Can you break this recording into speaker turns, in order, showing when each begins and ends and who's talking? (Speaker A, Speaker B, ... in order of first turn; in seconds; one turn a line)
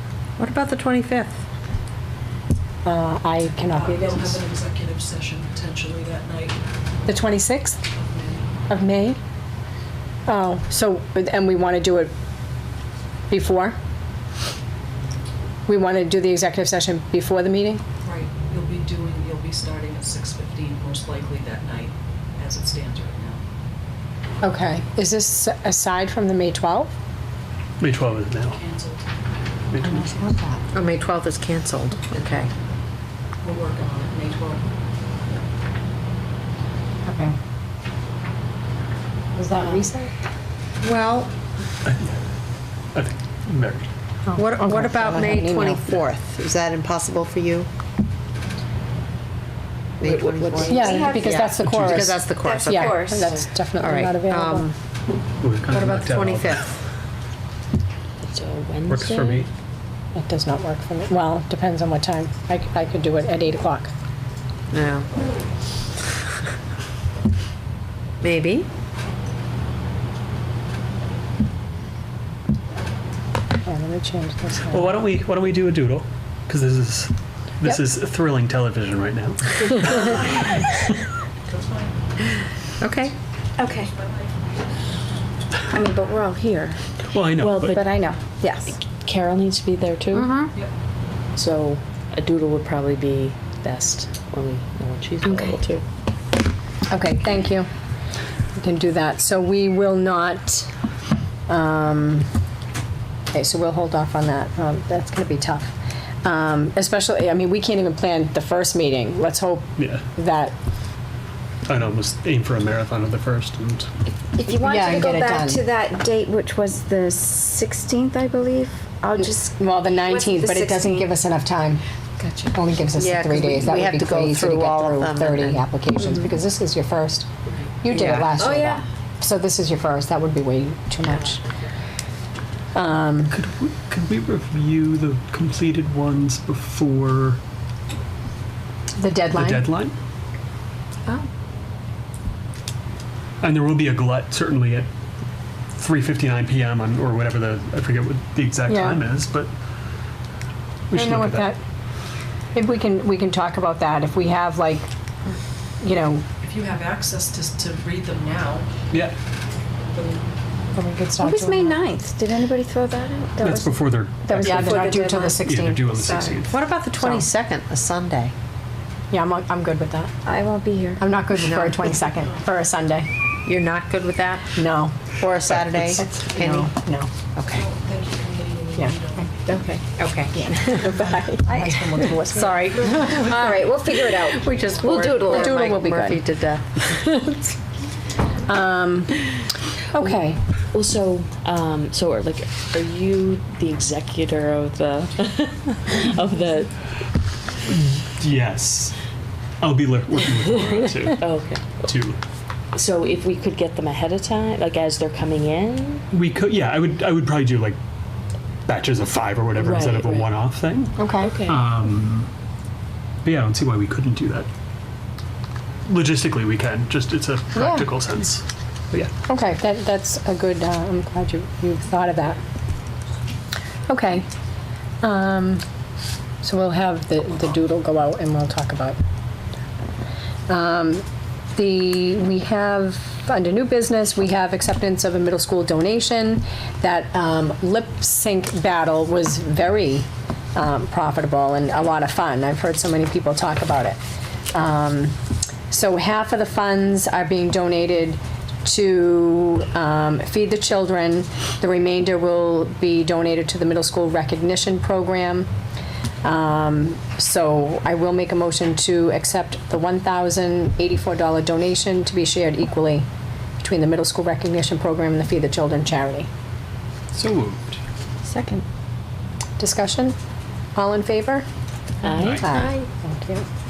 Speaker A: 0.4-1.4
Speaker B: 2.9-4.4
Speaker C: 3.7-6.6
Speaker B: 7.0-7.8
Speaker C: 7.9-8.5
Speaker B: 8.7-9.2
Speaker B: 10.3-12.1
Speaker B: 13.3-13.8
Speaker B: 15.7-17.8
Speaker C: 18.0-23.4
Speaker B: 24.4-26.9
Speaker D: 27.8-28.6
Speaker C: 28.5-29.1
Speaker D: 29.7-30.1
Speaker B: 29.8-30.6
Speaker A: 30.1-32.5
Speaker C: 33.4-34.6
Speaker B: 37.0-37.3
Speaker B: 39.4-40.1
Speaker A: 40.8-41.3
Speaker D: 41.8-42.2
Speaker D: 42.9-43.9
Speaker B: 44.2-45.8
Speaker A: 44.3-47.7
Speaker A: 50.0-53.0
Speaker B: 50.6-54.7
Speaker E: 50.7-51.7
Speaker D: 51.6-52.0
Speaker E: 52.4-53.4
Speaker A: 53.8-54.8
Speaker D: 55.4-56.6
Speaker A: 55.7-56.7
Speaker F: 58.2-59.5
Speaker D: 58.9-59.5
Speaker B: 60.1-63.9
Speaker A: 64.7-65.1
Speaker A: 68.2-68.7
Speaker B: 73.6-74.9
Speaker D: 74.6-80.2
Speaker C: 81.5-82.5
Speaker A: 82.8-83.1
Speaker E: 83.6-83.9
Speaker C: 83.6-84.3
Speaker E: 85.7-87.0
Speaker D: 87.1-87.8
Speaker F: 87.4-87.8
Speaker E: 87.6-88.8
Speaker F: 88.7-90.3
Speaker E: 90.1-90.5
Speaker F: 91.4-95.8
Speaker E: 95.3-95.6
Speaker B: 96.9-97.7
Speaker B: 98.6-100.7
Speaker B: 101.5-102.3
Speaker B: 103.3-105.7
Speaker B: 106.2-110.5
Speaker D: 109.8-110.0
Speaker D: 111.7-113.9
Speaker E: 114.3-121.1
Speaker B: 114.5-115.7
Speaker B: 119.2-121.8
Speaker E: 122.2-122.5
Speaker B: 122.5-127.3
Speaker A: 123.0-125.6
Speaker B: 127.8-131.4
Speaker A: 127.9-128.4
Speaker E: 128.4-128.8
Speaker B: 132.7-133.4
Speaker D: 133.3-137.4
Speaker B: 139.0-139.7
Speaker D: 139.3-140.0
Speaker D: 143.4-144.9
Speaker D: 145.8-149.5
Speaker B: 148.7-149.0
Speaker D: 150.9-151.5
Speaker B: 150.9-151.6
Speaker B: 152.5-154.9
Speaker B: 155.8-156.2
Speaker C: 156.4-158.7
Speaker C: 159.8-160.3
Speaker B: 160.8-161.8
Speaker E: 161.2-165.4
Speaker D: 163.4-166.6
Speaker B: 164.2-166.4
Speaker A: 166.5-168.3
Speaker B: 167.0-167.2
Speaker B: 169.1-170.2
Speaker E: 170.2-171.0
Speaker B: 171.0-173.1
Speaker A: 171.4-172.0
Speaker A: 173.5-174.6
Speaker B: 174.6-177.1
Speaker A: 175.2-176.7
Speaker A: 177.3-177.7
Speaker C: 177.5-179.4
Speaker B: 178.8-179.2
Speaker A: 179.5-180.3
Speaker B: 180.3-183.6
Speaker E: 180.7-185.6
Speaker A: 182.4-183.5
Speaker A: 184.2-186.9
Speaker B: 185.0-186.2
Speaker B: 186.9-187.5
Speaker B: 188.4-190.4
Speaker F: 190.7-197.0
Speaker D: 197.8-199.0
Speaker D: 199.6-201.2
Speaker F: 201.1-201.8
Speaker D: 201.8-202.2
Speaker F: 202.7-206.1
Speaker D: 206.1-207.8
Speaker D: 208.7-212.3
Speaker F: 209.6-210.3
Speaker B: 211.0-211.3
Speaker F: 211.2-211.7
Speaker D: 213.2-214.5
Speaker D: 215.9-219.1
Speaker B: 217.6-217.9
Speaker B: 219.3-222.4
Speaker B: 223.9-224.2
Speaker B: 225.0-225.6
Speaker B: 226.4-229.0
Speaker B: 230.5-231.0
Speaker B: 231.5-244.0
Speaker B: 244.5-245.1
Speaker B: 245.7-255.5
Speaker B: 256.2-263.1
Speaker B: 263.6-266.3
Speaker D: 267.1-267.8
Speaker E: 268.2-268.6
Speaker B: 269.6-270.1
Speaker B: 270.8-271.4
Speaker F: 272.0-272.5
Speaker D: 272.2-272.5
Speaker B: 272.4-273.4